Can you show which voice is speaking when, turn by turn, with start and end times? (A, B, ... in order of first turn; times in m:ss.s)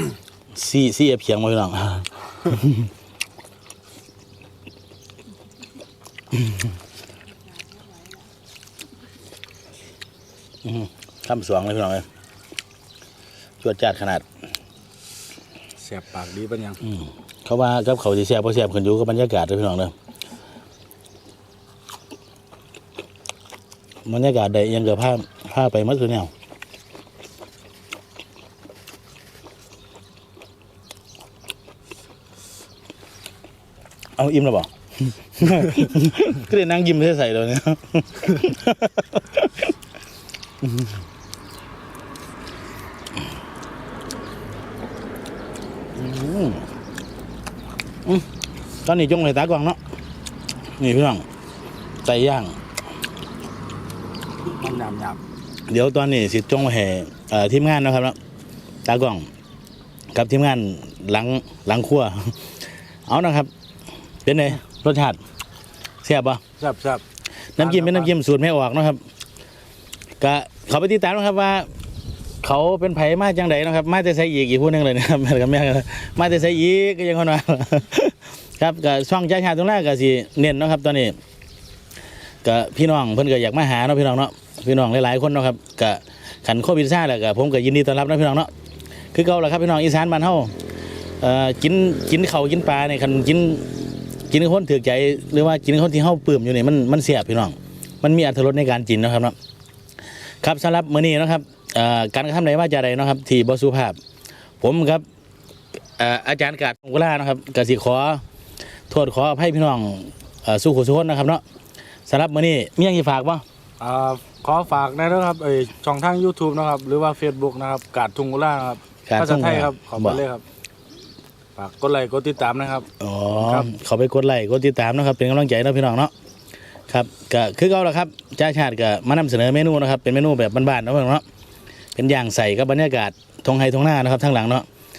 0:00.5-0:02.9 A
0:10.6-0:12.1 A
0:13.6-0:14.2 A
0:15.8-0:16.8 B
0:16.8-0:19.9 A
0:24.1-0:26.3 A
0:34.2-0:39.6 A
0:46.0-0:46.7 A
0:48.8-0:49.8 A
0:50.8-0:51.2 A
0:52.0-0:52.6 A
0:54.6-0:55.2 B
0:55.7-0:58.2 A
0:58.9-0:59.3 A
1:00.1-1:02.5 A
1:03.1-1:03.5 A
1:04.2-1:05.2 A
1:06.0-1:06.4 A
1:06.6-1:07.0 B
1:07.6-1:09.0 A
1:07.6-1:08.1 B
1:10.2-1:11.7 A
1:12.4-1:21.2 A
1:22.4-1:28.5 A
1:29.1-1:30.6 A
1:31.2-1:39.4 A
1:40.4-1:44.0 A
1:44.6-1:45.0 A
1:46.0-1:48.2 A
1:48.9-1:51.4 A
1:52.1-1:53.4 A
1:53.8-2:00.4 B
1:59.1-2:00.2 A
2:01.6-2:03.7 B
2:03.0-2:06.1 A
2:06.9-2:11.2 A
2:12.0-2:14.7 A